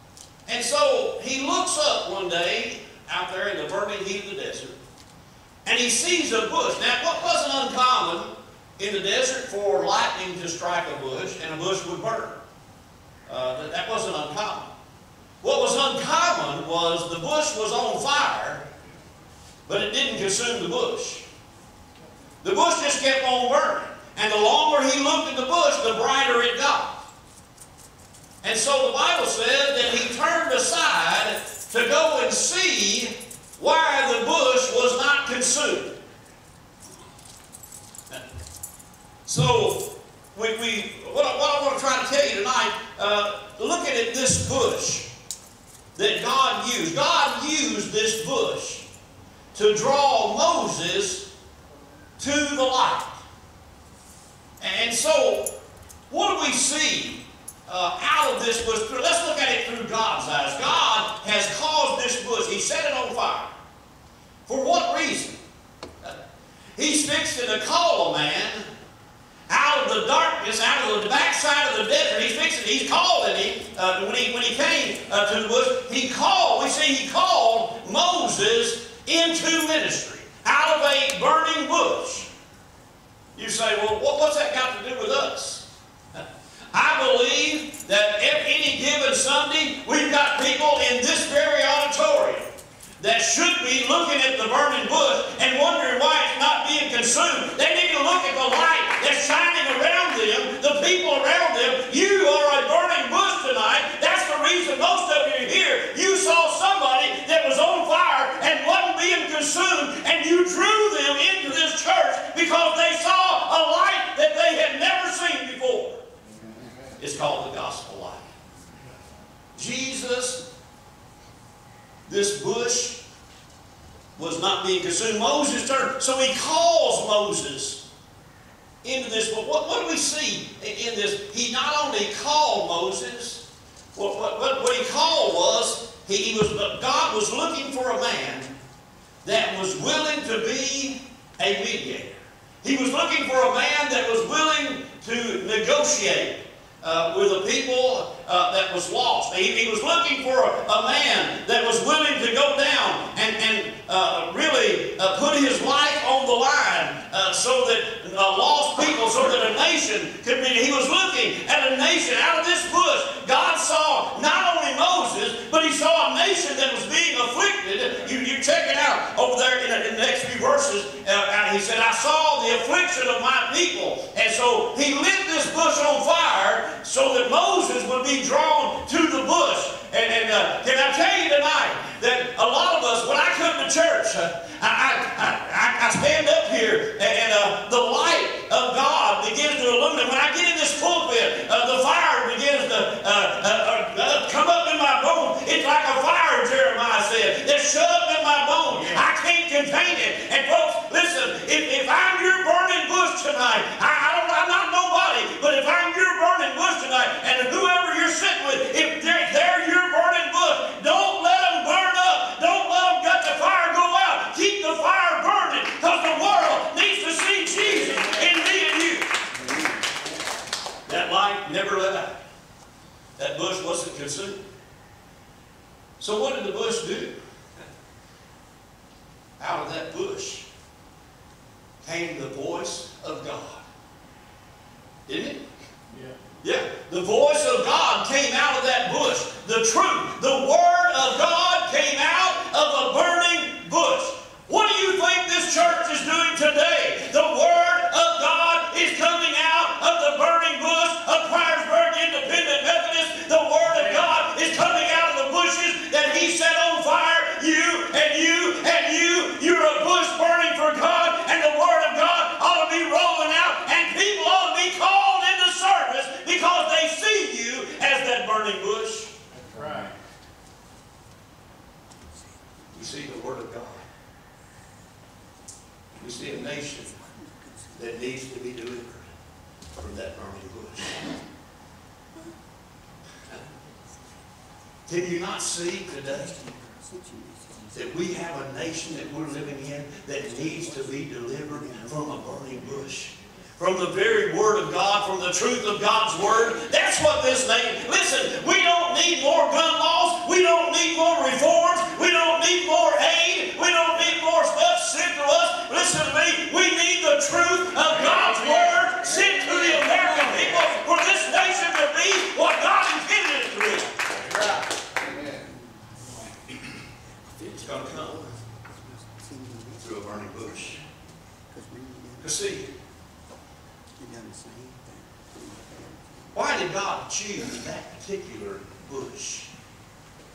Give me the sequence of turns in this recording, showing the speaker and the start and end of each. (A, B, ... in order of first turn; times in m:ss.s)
0:00.5-0:04.8 A
0:05.6-0:12.4 A
0:13.3-0:14.7 A
0:15.4-0:18.6 A
0:19.7-0:21.3 A
0:22.4-0:27.0 A
0:28.4-0:36.0 A
0:39.3-0:45.1 A
0:46.0-0:48.9 A
0:49.5-0:51.3 A
0:52.2-0:53.2 A
0:54.6-0:55.5 A
0:56.1-1:03.5 A
1:04.5-1:05.4 A
1:06.8-1:08.7 A
1:09.5-1:22.3 A
1:23.4-1:32.5 A
1:33.0-1:56.0 A
1:56.4-1:56.8 B
1:57.0-1:58.2 A
1:59.6-2:00.5 A
2:02.1-2:03.0 A
2:04.2-2:07.8 A
2:08.8-2:13.4 A
2:14.0-2:18.6 A
2:19.2-3:39.2 A
3:39.4-3:39.8 B
3:40.9-3:42.2 A
3:43.2-3:44.4 A
3:46.0-3:47.2 A
3:49.4-3:50.5 A
3:51.8-3:53.6 A
3:55.1-3:55.5 A
3:55.9-3:56.2 C
3:56.4-4:29.1 A
4:13.7-4:14.1 C
4:29.3-4:29.9 C
4:29.5-4:29.9 B
4:32.1-4:32.6 B
4:32.7-4:33.8 A
4:36.0-4:37.0 A
4:36.1-4:38.0 B
4:37.7-4:39.1 A
4:39.8-4:41.0 A
4:44.9-4:46.4 A
4:46.1-4:48.4 B
4:47.7-5:14.6 A
4:48.9-4:53.1 B
5:07.9-5:08.8 C
5:14.2-5:16.3 B
5:17.3-5:20.8 B
5:17.4-5:18.3 A
5:19.8-5:20.8 A
5:21.5-5:22.5 B
5:22.2-5:22.7 A
5:24.0-5:26.3 B
5:26.3-5:29.5 A